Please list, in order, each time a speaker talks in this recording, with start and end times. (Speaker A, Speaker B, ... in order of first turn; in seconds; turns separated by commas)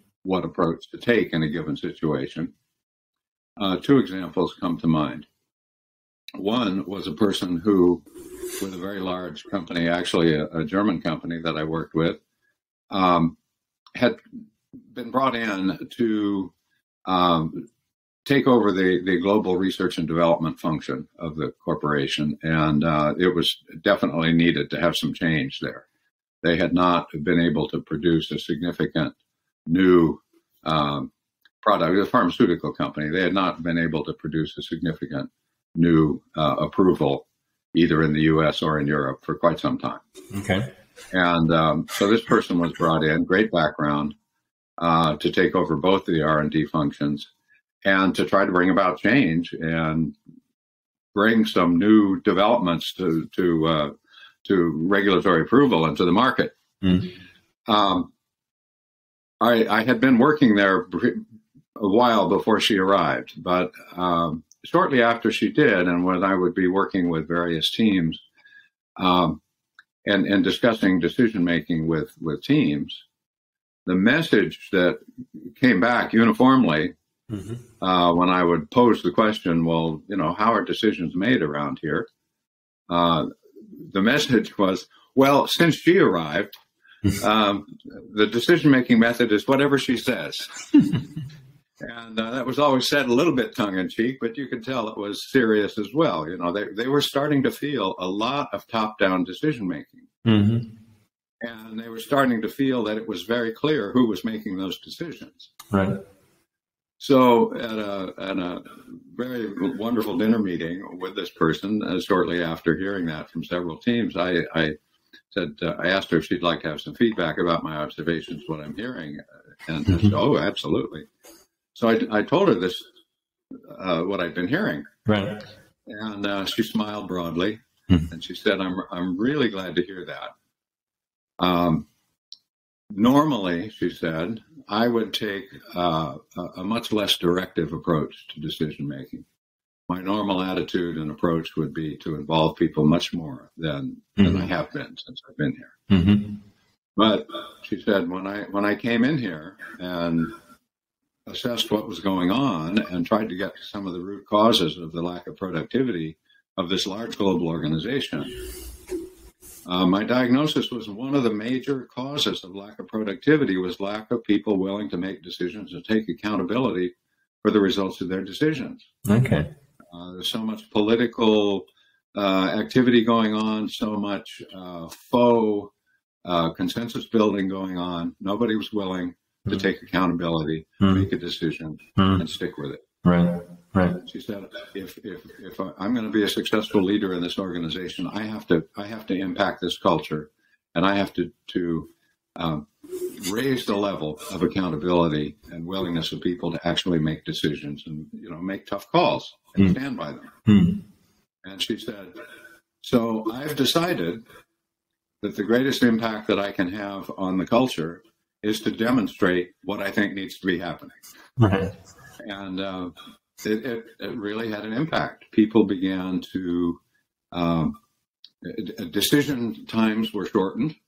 Speaker A: 0.2-2.5, Speaker A: 3.6-5.3, Speaker A: 6.4-8.0, Speaker A: 8.6-12.2, Speaker A: 12.9-13.4, Speaker A: 14.9-16.5, Speaker A: 17.1-17.7, Speaker A: 18.3-25.9, Speaker A: 26.4-29.1, Speaker A: 29.7-31.1, Speaker A: 31.6-40.0, Speaker B: 40.3-40.7, Speaker A: 41.1-44.2, Speaker A: 44.8-47.3, Speaker A: 47.8-50.2, Speaker A: 51.1-56.6, Speaker B: 56.8-57.1, Speaker A: 57.7-58.1, Speaker A: 59.4-61.2, Speaker A: 61.8-68.2, Speaker A: 69.0-69.4, Speaker A: 70.0-73.0, Speaker A: 73.9-76.9, Speaker B: 77.3-77.6, Speaker A: 77.8-82.1, Speaker A: 82.9-86.5, Speaker A: 87.1-90.7, Speaker A: 91.8-100.1, Speaker B: 100.2-100.7, Speaker A: 101.4-105.5, Speaker B: 105.7-106.0, Speaker A: 107.0-114.8, Speaker A: 115.3-121.1, Speaker B: 119.9-120.2, Speaker A: 121.8-122.8, Speaker A: 123.7-124.9, Speaker B: 125.1-125.4, Speaker A: 125.9-130.3, Speaker A: 131.4-131.9, Speaker A: 132.9-139.2, Speaker A: 139.9-145.8, Speaker B: 144.2-144.5, Speaker B: 145.9-146.4, Speaker A: 147.0-150.3, Speaker A: 151.3-158.3, Speaker A: 159.7-168.9, Speaker B: 169.1-169.5, Speaker A: 169.9-175.7, Speaker A: 176.2-182.8, Speaker B: 180.8-181.1, Speaker B: 182.0-182.2, Speaker B: 183.0-184.0, Speaker A: 183.9-200.3, Speaker B: 200.5-200.8, Speaker A: 201.4-202.2, Speaker A: 202.8-204.2, Speaker A: 205.2-211.0, Speaker B: 211.4-211.7, Speaker A: 212.2-216.8, Speaker A: 217.3-217.8, Speaker A: 218.4-220.8